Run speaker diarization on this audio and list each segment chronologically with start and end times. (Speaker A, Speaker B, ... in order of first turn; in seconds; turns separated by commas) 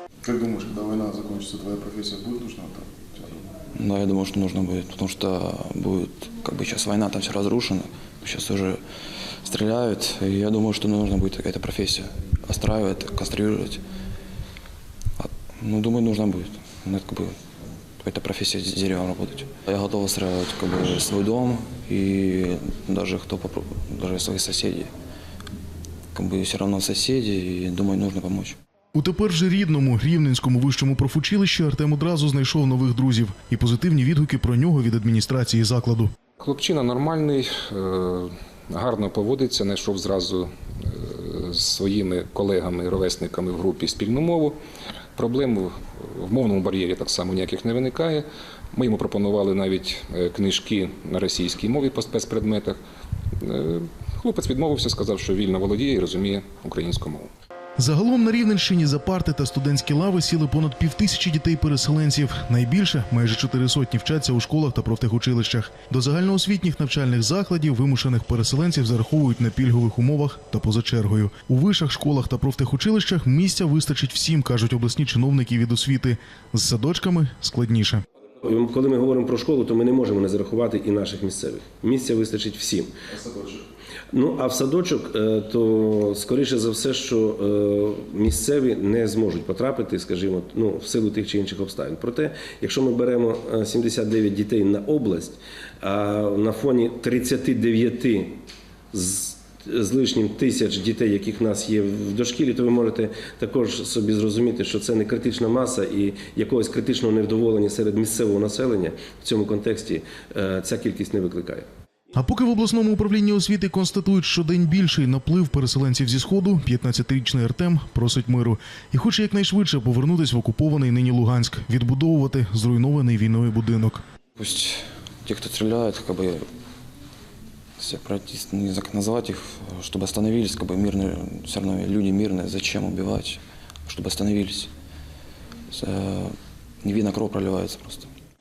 Speaker A: 0.2-3.2, Speaker B: 3.8-8.8, Speaker B: 9.4-13.8, Speaker B: 15.2-17.4, Speaker B: 18.0-24.9, Speaker B: 26.1-28.6, Speaker C: 28.9-36.1, Speaker D: 36.4-44.6, Speaker D: 45.2-52.8, Speaker D: 53.4-57.3, Speaker C: 57.8-78.0, Speaker E: 78.4-82.9, Speaker E: 84.1-98.4, Speaker E: 98.9-111.7, Speaker C: 112.2-124.0, Speaker B: 124.4-126.5, Speaker B: 127.8-134.7, Speaker B: 135.7-138.1